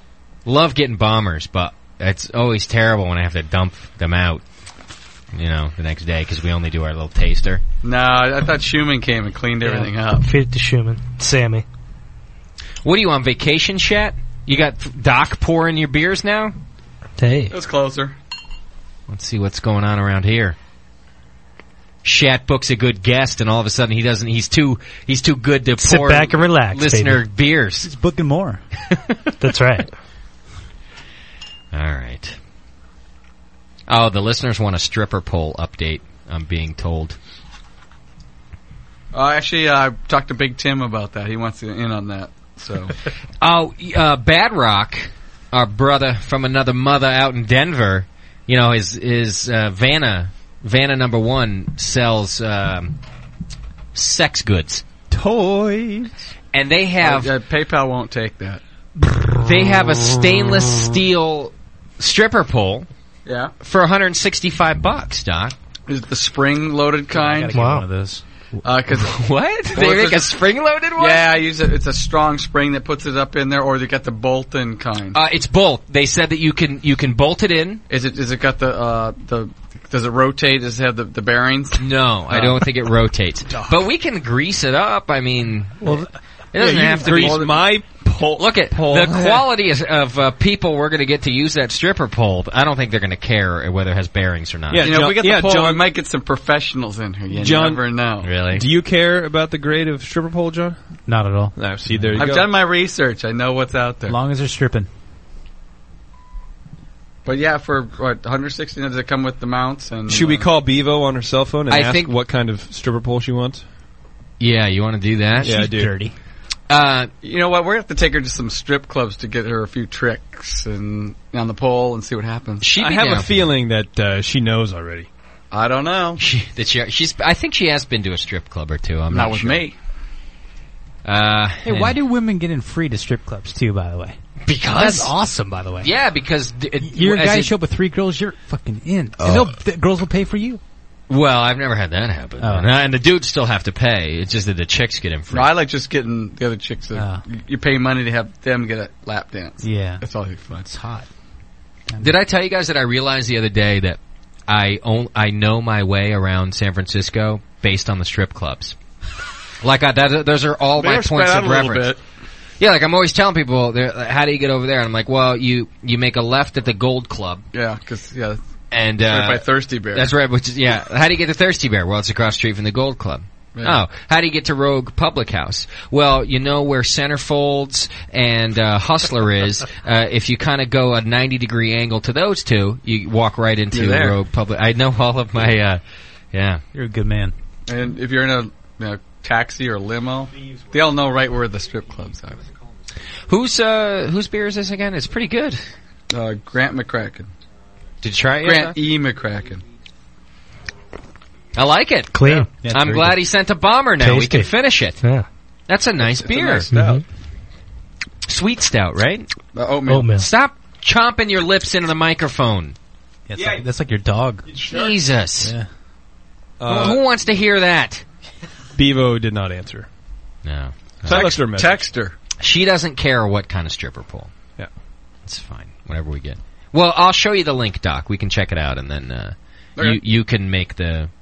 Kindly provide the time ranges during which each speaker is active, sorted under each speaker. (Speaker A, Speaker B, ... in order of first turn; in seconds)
Speaker A: 0.5-4.4, 5.3-7.6, 12.8-16.5, 19.1-20.6, 22.1-27.9, 31.7-32.4, 33.9-37.2, 43.4-53.0, 54.0-54.9, 56.5-57.3, 59.3-62.9, 63.6-65.5, 69.0-71.3, 75.1-77.8, 81.8-87.8, 88.4-95.0, 98.2-98.6, 111.7-112.1, 114.4-115.6, 116.7-117.1, 122.6-123.5, 126.2-129.6, 131.1-132.0, 134.5-135.1, 135.8-137.5, 141.1-145.5, 152.0-158.8, 159.6-161.9, 162.6-167.4, 168.7-185.8, 186.3-186.6, 193.3-195.6, 198.0-198.8, 201.6-205.0, 205.7-206.7, 208.3-209.3, 210.2-212.8, 214.7-215.5, 216.7-218.0, 220.4-221.4, 222.4-224.3, 225.3-231.1
Speaker B: 7.8-10.3, 17.5-18.1, 39.1-42.9, 57.0-58.6, 63.3-63.5, 65.9-67.6, 68.6-69.1, 69.7-70.2, 71.0-75.2, 77.9-82.6, 94.8-98.3, 102.1-104.2, 107.2-110.5, 117.2-122.6, 125.5-126.2, 129.1-129.8, 145.3-150.7, 160.8-162.0, 167.5-168.4, 169.0-170.1, 173.6-173.8, 183.7-184.2, 187.7-192.4, 196.1-197.3, 198.4-199.6, 206.0-207.0, 209.5-210.1, 221.1-222.1
Speaker C: 9.7-11.7, 17.2-17.5, 25.8-27.2, 29.4-29.9, 67.5-67.9, 202.1-202.5, 204.0-205.3, 206.7-207.0, 209.9-210.3
Speaker D: 27.8-28.6, 67.1-68.2, 101.1-102.3, 104.1-104.9, 115.4-116.2, 131.7-134.2, 134.7-135.9, 136.8-140.6, 142.4-142.7, 146.9-147.2, 149.6-150.0, 150.6-151.1, 186.7-187.3, 202.5-203.2, 213.3-214.5, 215.4-215.7
Speaker E: 55.1-56.1, 86.6-89.5, 94.7-95.8, 97.3-97.8, 98.5-100.8, 101.5-102.5, 110.1-113.7, 115.4-116.0, 122.8-125.1, 213.3-213.7, 214.5-215.0, 216.6-217.0, 218.8-219.9, 221.1-221.9